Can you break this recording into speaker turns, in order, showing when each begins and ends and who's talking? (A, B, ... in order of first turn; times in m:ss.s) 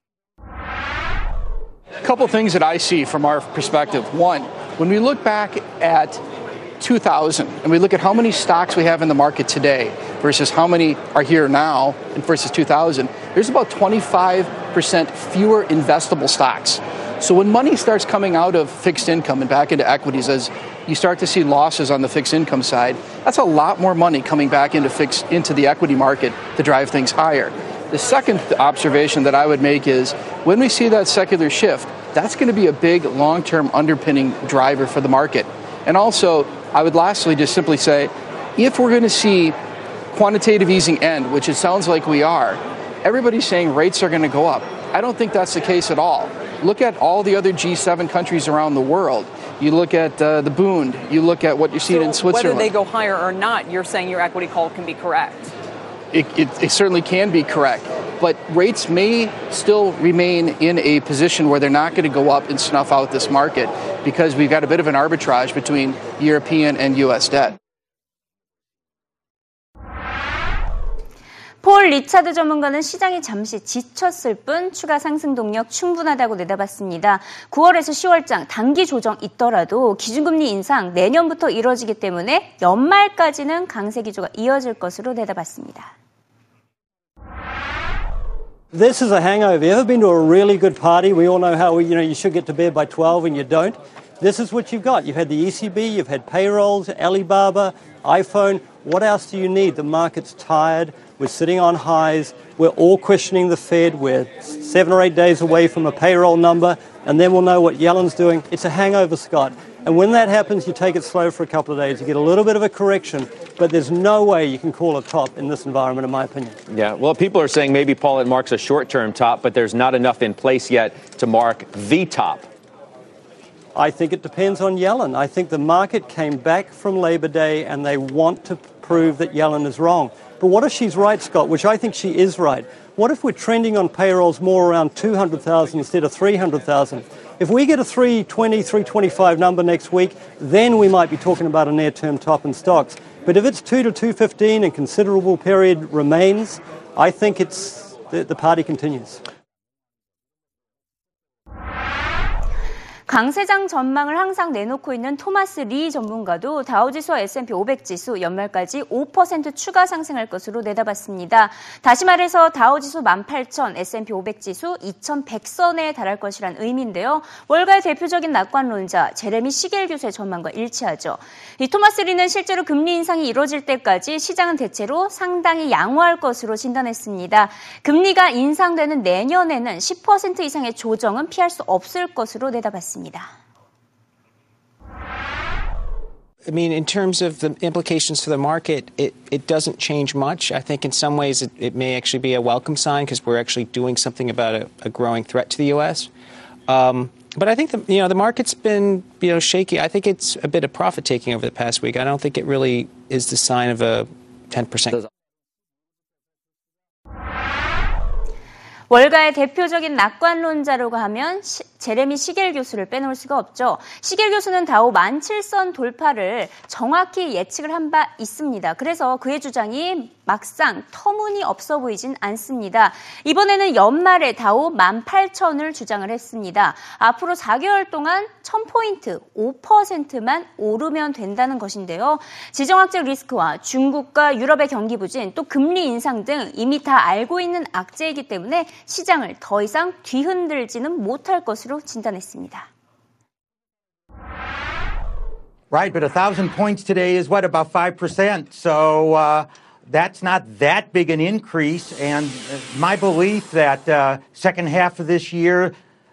0:02.0-0:06.2 A
0:06.8-0:39.6 A
0:40.1-0:52.8 A
0:52.0-0:55.5 B
0:56.1-1:07.6 A
1:11.6-1:25.9 C
1:28.7-1:56.6 D
1:56.7-2:02.5 E
2:03.8-2:29.2 D
2:33.1-3:03.3 C
3:06.5-3:16.1 F
3:16.7-3:25.0 F
3:28.9-4:02.7 C
4:05.7-4:15.7 G